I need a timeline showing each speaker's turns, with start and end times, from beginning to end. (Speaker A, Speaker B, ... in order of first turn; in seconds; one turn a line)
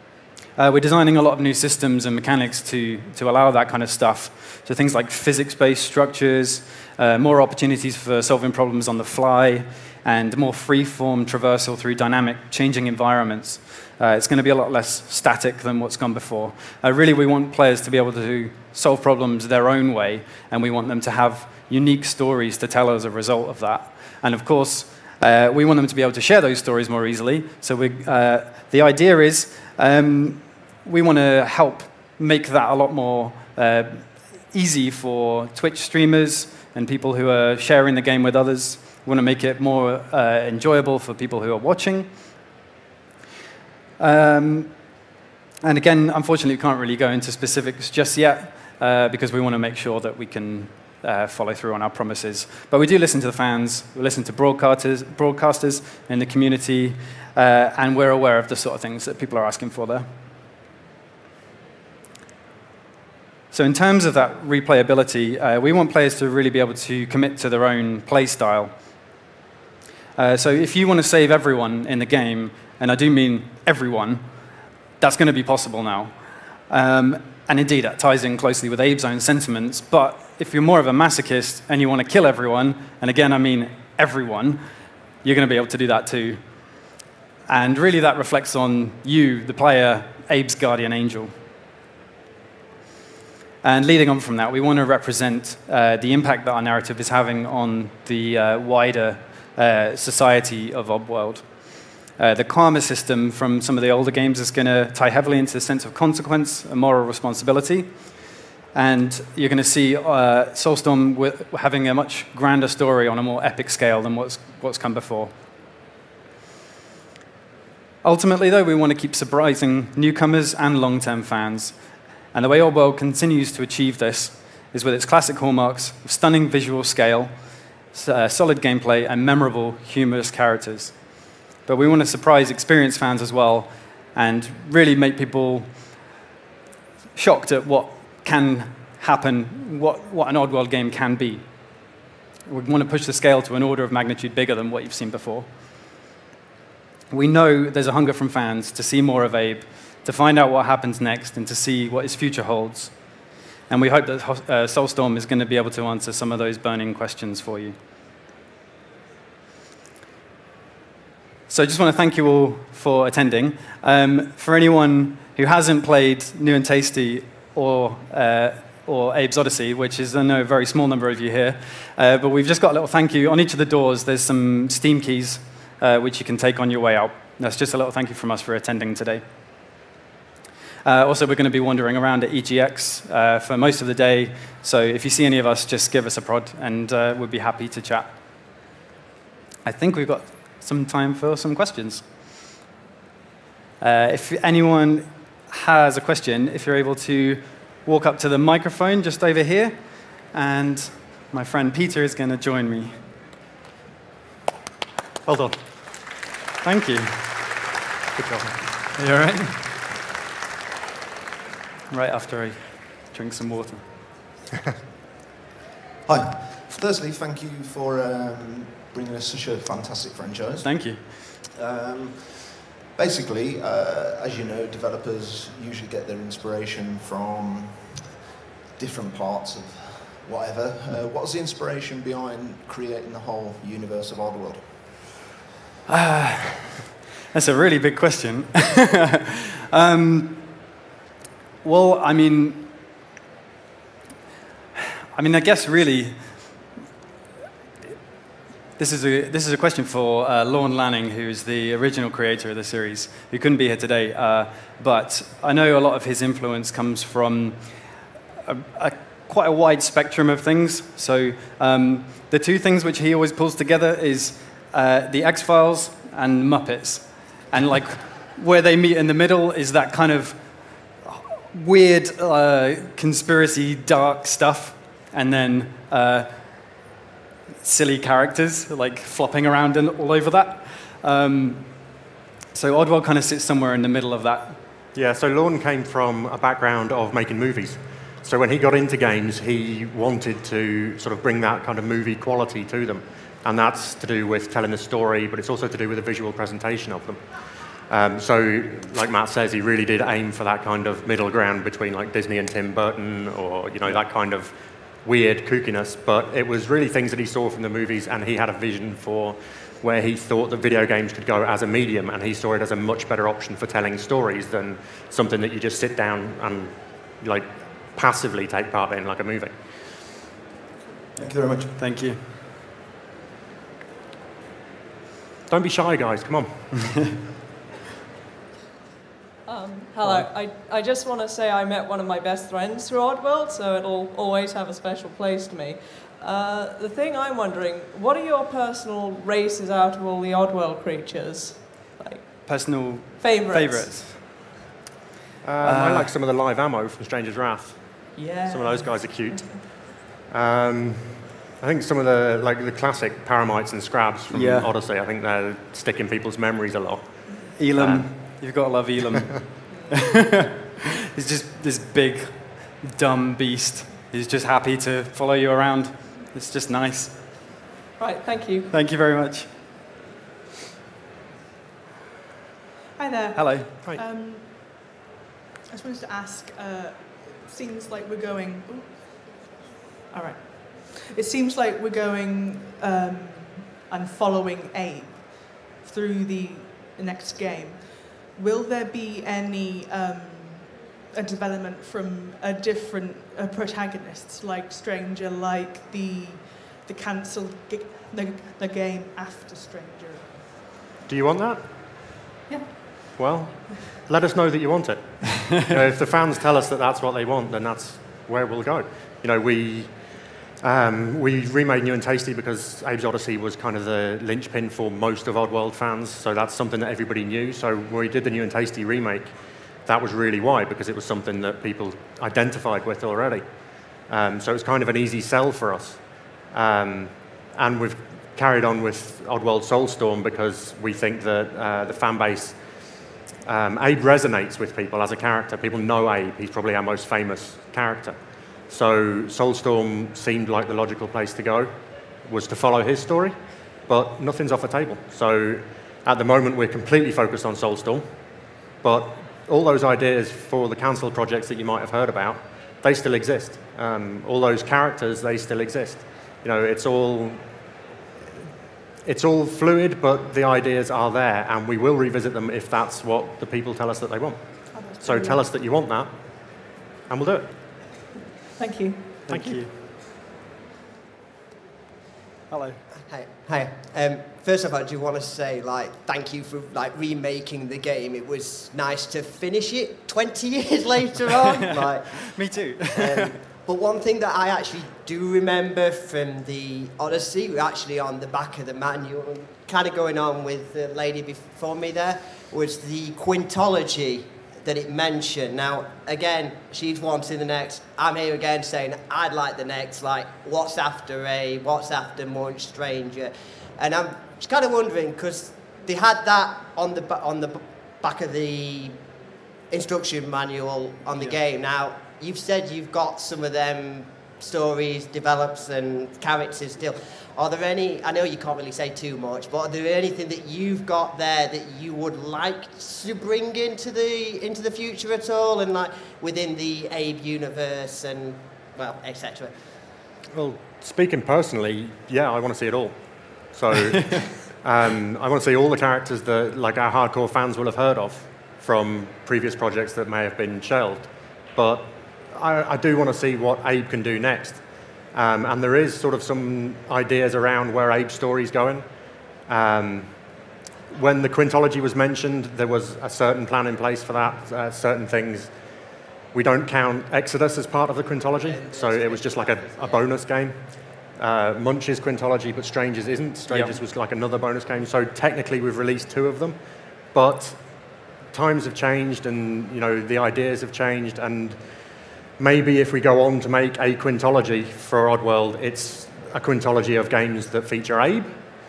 Speaker A: 0.6-42.1
Speaker A: 44.0-44.7
Speaker A: 45.6-60.1
Speaker A: 63.5-68.7
Speaker A: 70.2-74.2
Speaker A: 75.0-76.1
Speaker A: 76.7-84.6
Speaker A: 85.2-86.4
Speaker A: 87.5-91.3
Speaker A: 93.6-101.5
Speaker A: 102.2-107.9
Speaker A: 108.7-115.3
Speaker A: 118.0-121.8
Speaker A: 122.3-127.3
Speaker A: 127.9-130.9
Speaker A: 131.7-135.7
Speaker A: 137.2-141.4
Speaker A: 142.5-145.5
Speaker A: 147.1-152.9
Speaker A: 153.7-157.8
Speaker A: 161.5-179.2
Speaker A: 180.8-188.1
Speaker A: 189.7-192.1
Speaker A: 193.8-199.8
Speaker A: 200.3-203.0
Speaker B: 205.3-205.6
Speaker A: 206.6-207.2
Speaker B: 208.2-208.5
Speaker A: 209.0-209.7
Speaker A: 211.9-213.8
Speaker C: 216.1-228.2
Speaker A: 220.6-221.0
Speaker C: 228.8-234.8
Speaker A: 235.9-236.8
Speaker A: 237.3-240.5
Speaker A: 241.6-242.7
Speaker A: 245.2-246.4
Speaker A: 248.8-257.6
Speaker A: 258.5-276.3
Speaker A: 277.6-281.7
Speaker A: 282.5-284.6
Speaker B: 284.9-297.2
Speaker B: 297.9-319.5
Speaker C: 321.2-321.8
Speaker A: 321.8-322.2
Speaker B: 325.5-326.7
Speaker D: 329.5-342.7
Speaker A: 330.0-330.3
Speaker A: 342.5-344.2
Speaker D: 343.2-344.0
Speaker B: 345.4-358.4
Speaker A: 345.6-346.1
Speaker D: 348.1-349.7
Speaker A: 354.3-354.7
Speaker A: 357.6-367.2
Speaker D: 368.0-368.7
Speaker A: 368.7-369.5
Speaker E: 373.0-374.9
Speaker A: 373.4-373.7
Speaker E: 375.7-379.5
Speaker E: 380.1-400.7
Speaker B: 401.1-401.6
Speaker E: 402.5-403.0
Speaker B: 403.1-409.9
Speaker B: 410.6-419.3
Speaker B: 419.9-423.4
Speaker B: 424.1-432.6
Speaker B: 433.4-438.2
Speaker B: 438.7-441.7
Speaker B: 442.2-443.4
Speaker B: 443.9-448.1
Speaker B: 448.8-457.4
Speaker B: 459.0-466.6
Speaker E: 464.7-465.5
Speaker B: 467.1-467.5
Speaker E: 468.6-469.2
Speaker A: 469.3-469.7
Speaker B: 469.3-469.6
Speaker A: 472.5-472.8
Speaker F: 473.1-509.0
Speaker A: 481.6-483.4
Speaker F: 509.7-529.5
Speaker B: 530.3-544.6
Speaker B: 545.1-548.9
Speaker B: 549.5-550.1
Speaker B: 550.9-555.5
Speaker B: 556.3-560.5
Speaker F: 558.4-560.2
Speaker B: 561.2-566.6
Speaker A: 563.5-563.8
Speaker B: 567.1-567.6
Speaker B: 568.3-571.6
Speaker B: 572.4-578.4